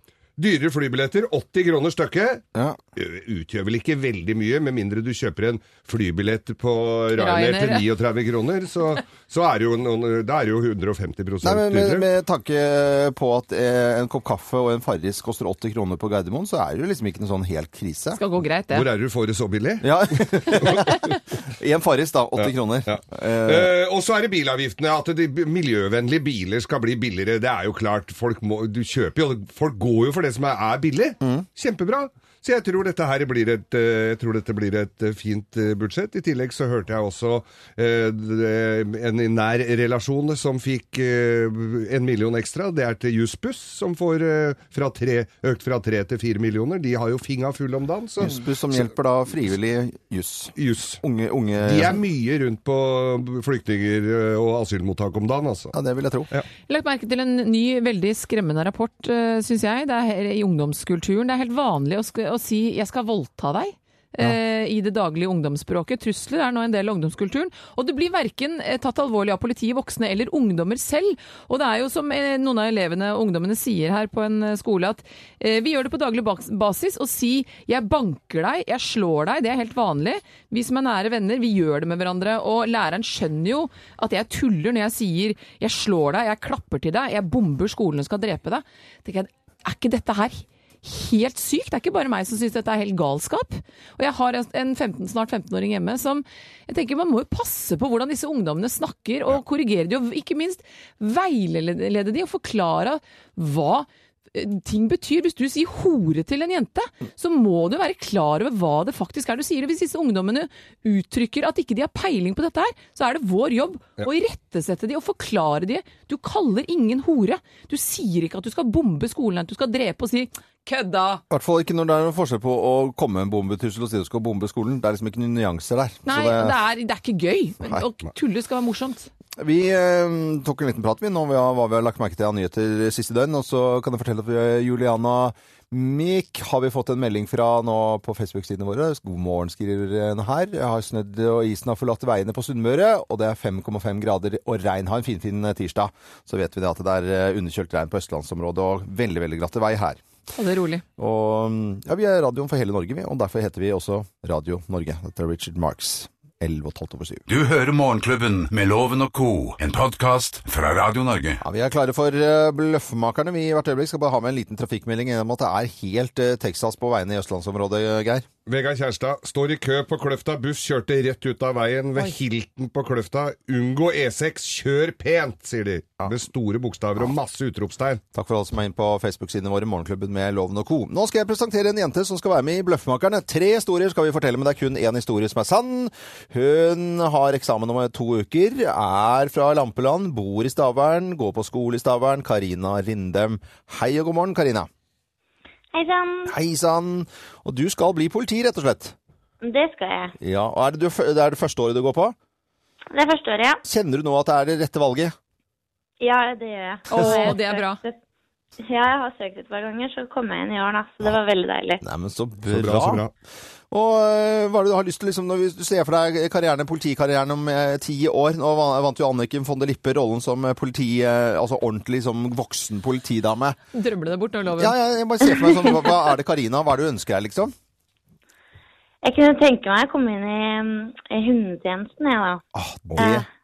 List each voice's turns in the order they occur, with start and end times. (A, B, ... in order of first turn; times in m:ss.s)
0:00.4-0:02.4 A
0:03.0-0:12.1 A
0:07.2-0:07.8 B
0:11.4-0:18.2 C
0:18.2-0:18.9 B
0:18.7-0:19.9 A
0:19.8-0:23.7 C
0:20.5-0:21.0 A
0:22.4-0:48.8 A
0:31.2-0:31.5 C
0:48.2-0:52.0 C
0:50.6-0:51.0 A
0:51.6-0:55.7 A
0:55.7-0:56.3 C
0:56.7-2:01.2 B
2:01.3-2:06.6 C
2:06.1-2:09.1 B
2:09.4-2:30.0 C
2:30.3-2:30.8 B
2:31.0-2:37.2 C
2:37.3-2:41.4 D
2:41.4-2:48.3 C
2:48.5-2:58.0 A
2:58.1-3:14.7 C
3:15.7-3:16.3 E
3:16.3-3:19.0 C
3:19.4-3:20.2 E
3:20.2-3:22.2 C
3:22.9-3:23.6 E
3:23.6-3:25.1 C
3:26.0-3:28.0 E
3:26.9-3:27.8 B
3:27.0-3:27.4 C
3:28.6-3:31.8 E
3:31.8-3:33.1 C
3:32.5-3:33.1 A
3:33.7-3:43.6 C
3:43.7-3:44.8 B
3:44.5-3:47.5 C
3:49.0-3:52.4 E
3:52.5-3:53.3 C
3:53.0-3:53.3 E